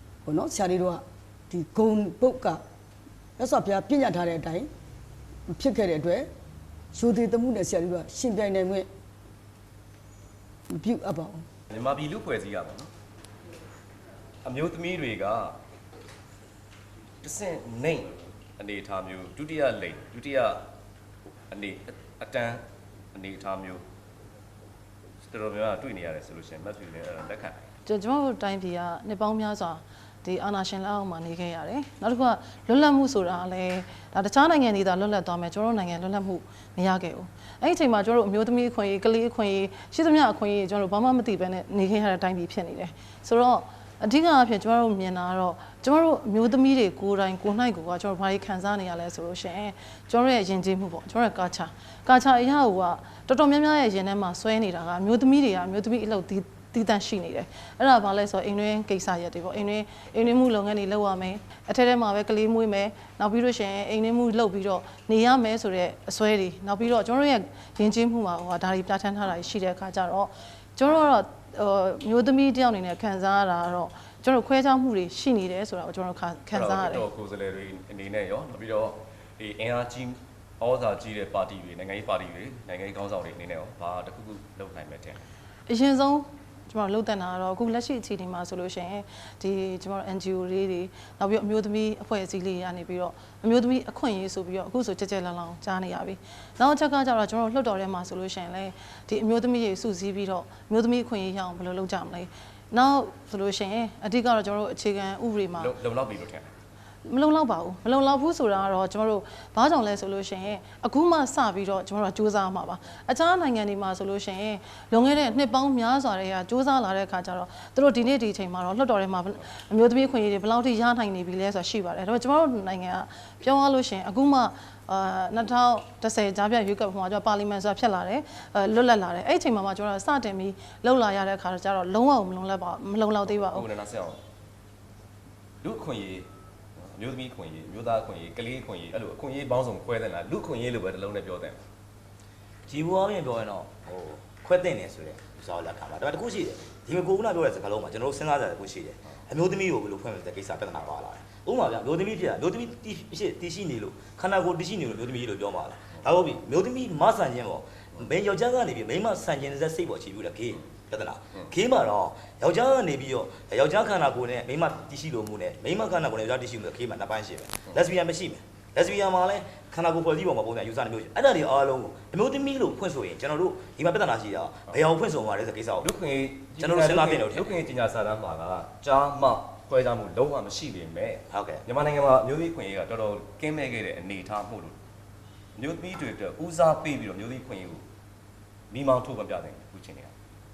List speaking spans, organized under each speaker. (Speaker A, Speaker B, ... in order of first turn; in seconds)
Speaker A: 0.2-2.6, 3.4-4.7, 5.5-6.3, 6.9-8.9, 10.7-11.4
Speaker B: 11.7-12.9, 14.4-15.6, 17.2-20.6, 21.5-22.6, 23.1-23.8, 25.3-27.7, 76.5-85.2, 105.6-106.5, 133.3-134.2, 135.6-136.3, 136.8-141.6, 175.8-184.8, 185.6-187.8, 188.7-190.1
Speaker C: 27.9-77.1, 85.7-105.7, 107.0-133.7
Speaker D: 142.7-175.9, 176.6-177.5, 181.3-181.6